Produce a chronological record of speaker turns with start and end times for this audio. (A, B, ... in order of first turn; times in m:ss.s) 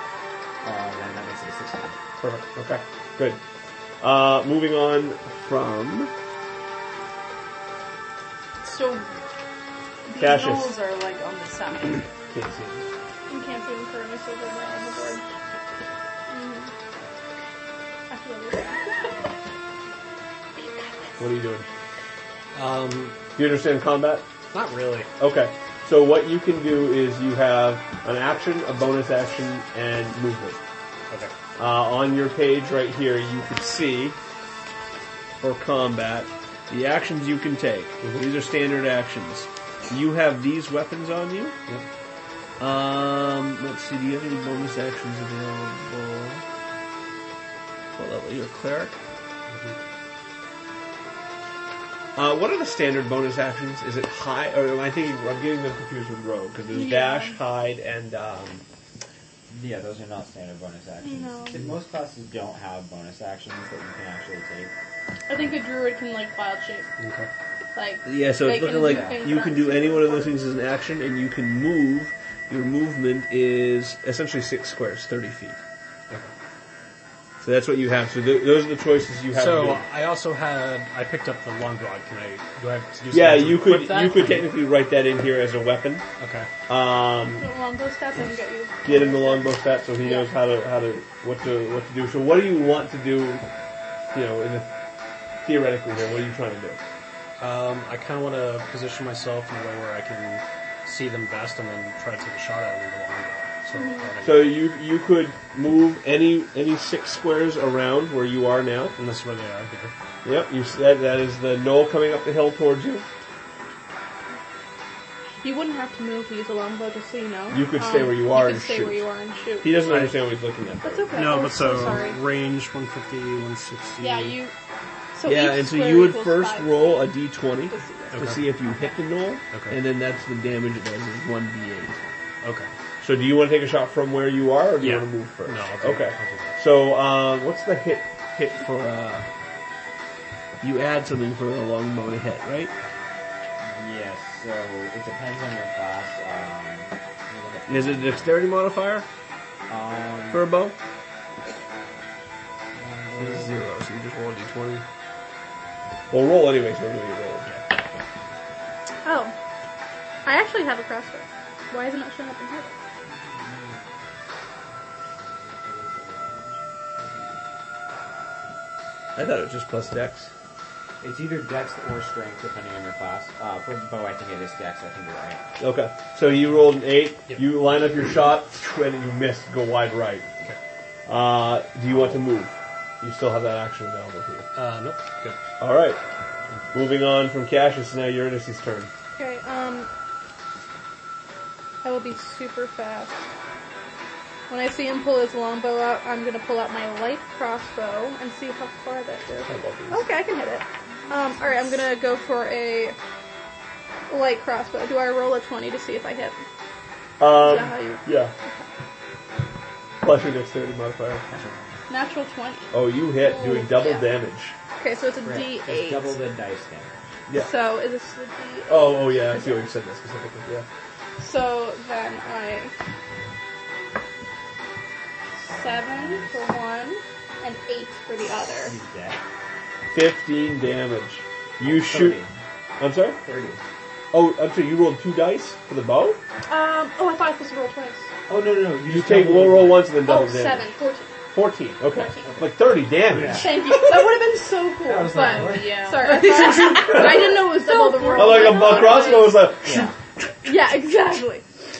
0:00.6-0:02.0 A
0:02.2-0:03.4 B
0:04.0-0:06.1 B
0:08.6-0:09.1 C
0:10.1-0:12.1 C
0:10.1-0:10.8 B
0:12.3-0:12.8 B
0:13.3-0:15.2 D
0:16.3-0:16.7 D
0:18.1-0:19.2 D
0:21.2-0:21.7 B
0:22.5-0:23.2 E
0:23.3-0:24.3 B
0:24.5-0:25.1 E
0:25.2-0:30.6 B
0:31.6-0:34.2 B
0:35.4-0:41.6 B
0:38.0-0:38.3 E
0:42.6-0:46.4 B
0:48.0-0:48.9 B
0:49.5-0:49.8 E
0:52.2-0:58.6 B
0:56.7-0:57.4 D
0:59.5-1:04.7 A
1:01.0-1:01.6 D
1:05.3-1:06.9 D
1:07.0-1:07.3 E
1:07.7-1:10.4 D
1:08.0-1:15.6 B
1:08.7-1:09.3 A
1:17.4-1:19.8 B
1:19.3-1:24.6 E
1:23.1-1:26.0 B
1:26.2-1:26.5 E
1:26.7-1:27.5 B
1:27.4-1:30.3 D
1:28.8-1:33.5 B
1:34.1-1:34.7 B
1:35.4-1:36.8 B
1:37.4-1:44.6 E
1:43.7-1:44.1 D
1:44.2-1:49.0 B
1:49.0-1:49.9 E
1:50.2-1:53.0 B
1:55.4-1:59.8 D
1:57.5-1:59.0 B
1:59.6-2:01.3 B
1:59.8-2:00.3 E
2:00.8-2:02.2 D
2:01.1-2:04.4 E
2:04.0-2:04.5 D
2:05.1-2:07.2 D
2:05.2-2:12.0 B
2:07.7-2:08.9 D
2:08.1-2:08.5 E
2:09.5-2:09.8 E
2:12.4-2:12.7 E
2:13.0-2:19.3 B
2:14.8-2:16.6 E
2:20.6-2:22.7 B
2:23.6-2:28.3 A
2:27.7-2:29.0 B
2:29.7-2:30.4 A
2:30.3-2:30.8 B
2:32.7-2:33.5 A
2:33.1-2:34.8 B
2:36.1-2:37.6 B
2:39.0-2:39.3 D
2:40.2-2:42.8 D
2:43.0-2:43.9 A
2:45.2-2:47.4 A
2:49.1-2:50.3 B
2:51.0-2:55.4 A
2:55.6-3:00.3 B
3:01.0-3:04.5 B
3:04.5-3:05.4 E
3:05.6-3:06.0 B
3:06.7-3:08.9 B
3:09.1-3:09.9 D
3:11.8-3:13.3 D
3:14.5-3:23.0 D
3:19.4-3:20.1 B
3:21.1-3:21.5 C
3:24.1-3:26.4 D
3:27.2-3:28.3 B
3:27.3-3:28.7 D
3:30.0-3:31.2 B
3:31.3-3:31.8 A
3:31.9-3:34.1 D
3:32.7-3:34.5 B
3:34.8-3:36.2 D
3:35.2-3:37.0 A
3:37.3-3:39.7 D
3:38.7-3:40.7 B
3:41.2-3:42.7 D
3:45.4-3:48.7 D
3:45.5-3:46.5 A
3:48.6-3:49.2 A
3:49.9-3:52.2 B
3:51.6-3:52.3 A
3:52.8-3:53.2 B
3:53.2-3:53.6 A
3:54.1-3:56.2 B
3:56.5-3:58.1 D
3:58.3-3:59.9 A
3:58.8-4:00.7 B
4:00.0-4:01.2 D
4:01.3-4:03.5 B
4:02.2-4:03.8 A
4:03.3-4:09.5 D
4:04.8-4:06.7 A
4:05.0-4:09.4 C
4:06.8-4:07.3 B
4:08.1-4:09.9 B
4:09.6-4:10.0 A
4:10.4-4:11.4 D